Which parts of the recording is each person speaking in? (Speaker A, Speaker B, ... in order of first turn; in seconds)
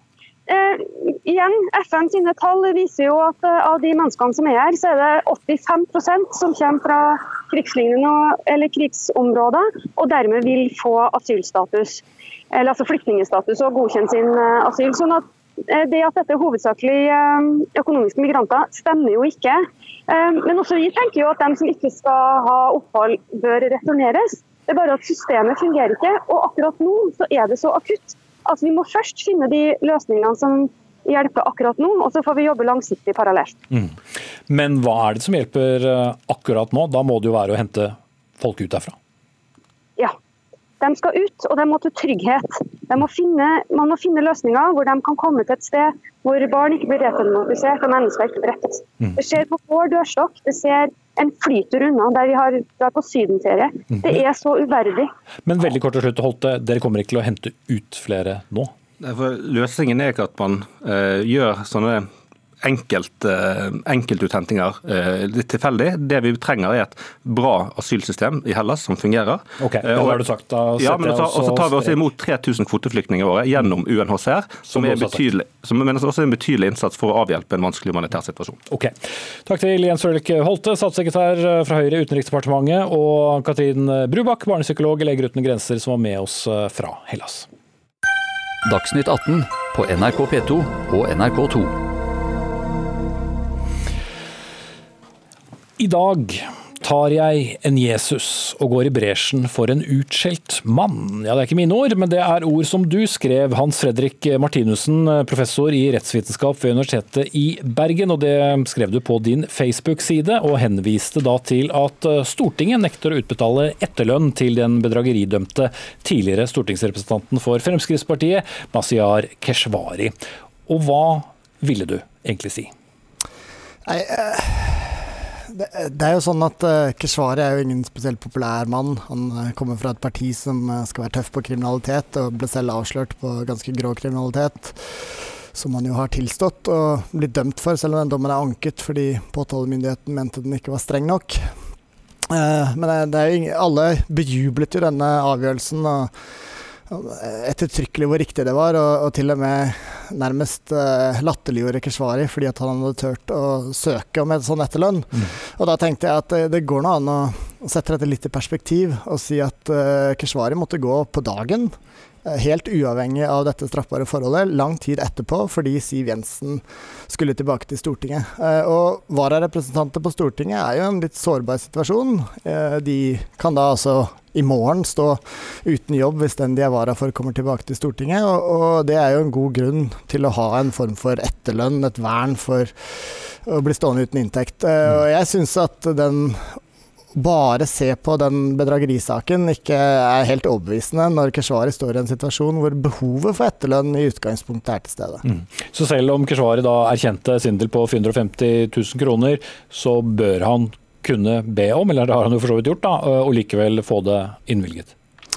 Speaker A: 0.5-33.6, 40.8-55.1
Speaker B: 33.7-34.0, 34.5-39.0, 55.5-58.7, 69.6-72.0, 74.7-75.2, 78.7-79.0, 79.5-87.5, 95.8-120.1, 120.7-122.7, 195.2-204.9
Speaker C: 59.0-62.1, 62.6-78.6
Speaker D: 88.7-91.8
Speaker E: 123.9-141.5, 142.3-146.1, 146.9-161.7, 162.3-186.6, 187.2-195.2